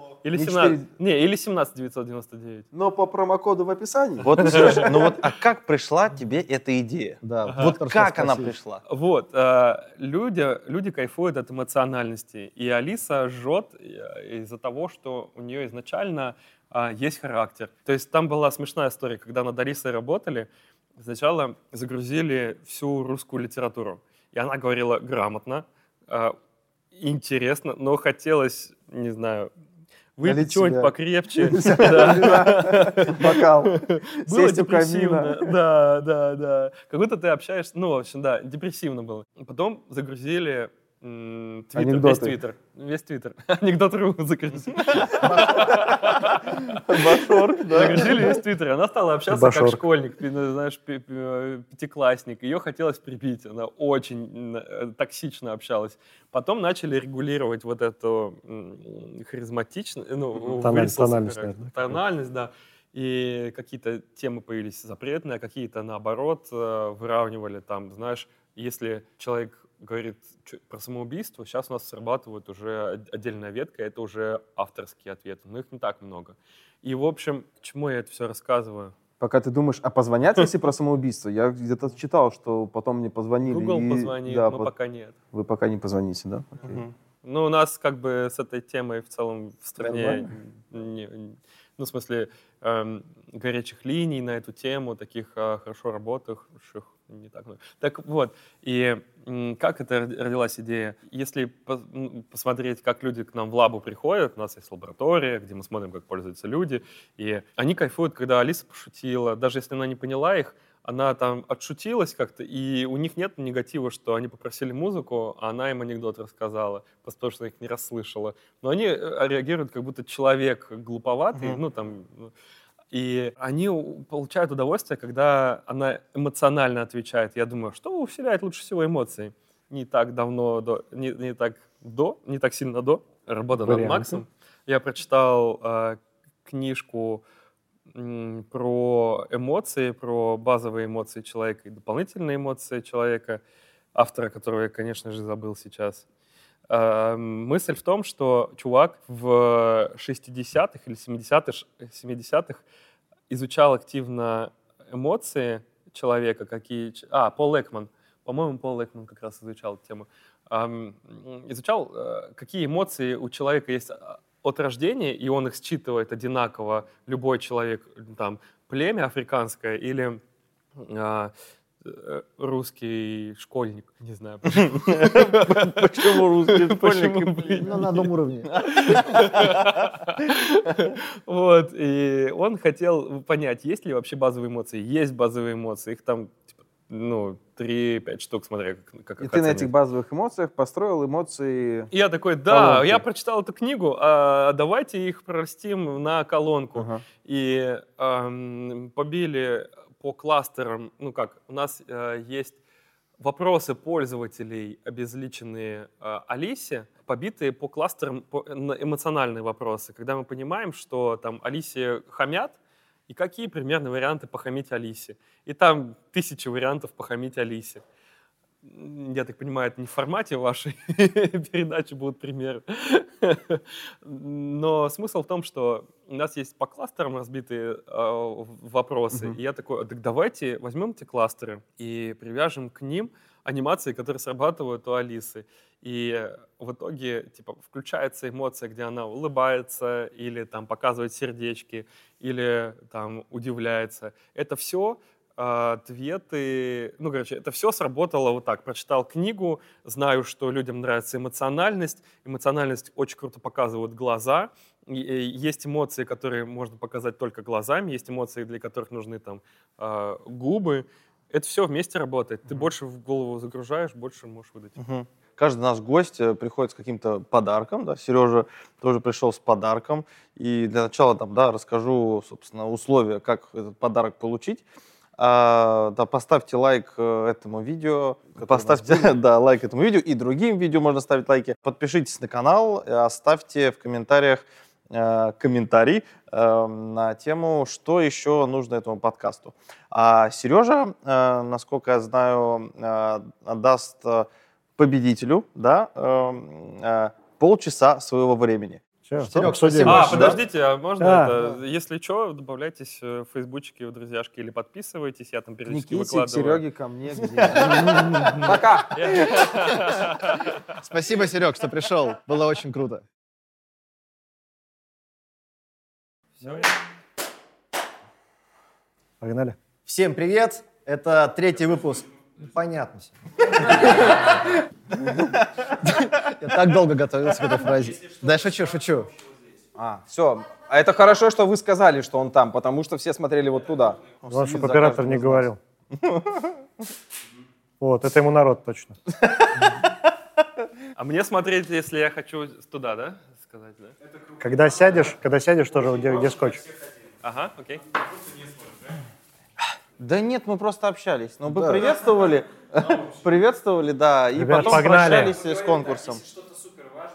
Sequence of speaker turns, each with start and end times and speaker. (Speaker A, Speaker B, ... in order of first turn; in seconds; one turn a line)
Speaker A: 0.2-2.6
Speaker B: 0.3-0.9
Speaker B: 2.7-5.1
Speaker C: 4.2-8.8
Speaker A: 4.3-5.1
Speaker D: 7.2-8.6
Speaker A: 7.5-7.7
Speaker A: 8.9-26.4
Speaker A: 26.9-29.5
Speaker A: 30.2-47.0
Speaker B: 30.2-35.5
Speaker B: 41.7-42.4
Speaker C: 45.1-45.9
Speaker D: 45.4-45.8
Speaker C: 46.7-48.4
Speaker A: 47.7-78.9
Speaker E: 49.3-49.8
Speaker E: 60.5-62.0
Speaker B: 79.2-84.7
Speaker A: 83.4-85.2
Speaker B: 85.3-86.8
Speaker C: 86.7-86.9
Speaker A: 87.2-122.3
Speaker E: 89.8-90.2
Speaker C: 121.3-121.6
Speaker A: 122.9-137.2
Speaker E: 133.5-134.2
Speaker A: 137.9-143.4
Speaker A: 143.9-146.0
Speaker A: 146.7-152.6
Speaker A: 153.3-170.2
Speaker A: 170.8-178.1
Speaker C: 174.5-180.0
Speaker D: 177.6-179.0
Speaker A: 178.6-189.7
Speaker B: 189.2-191.9
Speaker A: 191.9-202.6
Speaker B: 192.5-193.0
Speaker B: 196.8-197.0
Speaker A: 203.2-212.6
Speaker A: 213.1-217.8
Speaker A: 218.6-264.8
Speaker B: 229.1-229.4
Speaker C: 264.8-274.6
Speaker C: 275.2-300.4
Speaker B: 278.4-279.1
Speaker E: 299.0-300.4
Speaker D: 299.4-300.2
Speaker A: 299.8-306.6
Speaker E: 301.0-301.3
Speaker B: 305.7-309.2
Speaker A: 307.9-310.8
Speaker D: 310.7-313.0
Speaker A: 316.4-316.7
Speaker E: 319.2-319.6
Speaker D: 319.9-324.5
Speaker D: 325.8-329.1
Speaker B: 329.7-335.5
Speaker E: 334.3-335.6
Speaker C: 334.7-335.0
Speaker C: 336.0-336.4
Speaker E: 337.8-338.9
Speaker A: 340.9-343.9
Speaker E: 344.4-346.6
Speaker A: 347.2-347.9
Speaker C: 350.0-356.4
Speaker B: 351.5-351.9
Speaker E: 354.4-355.4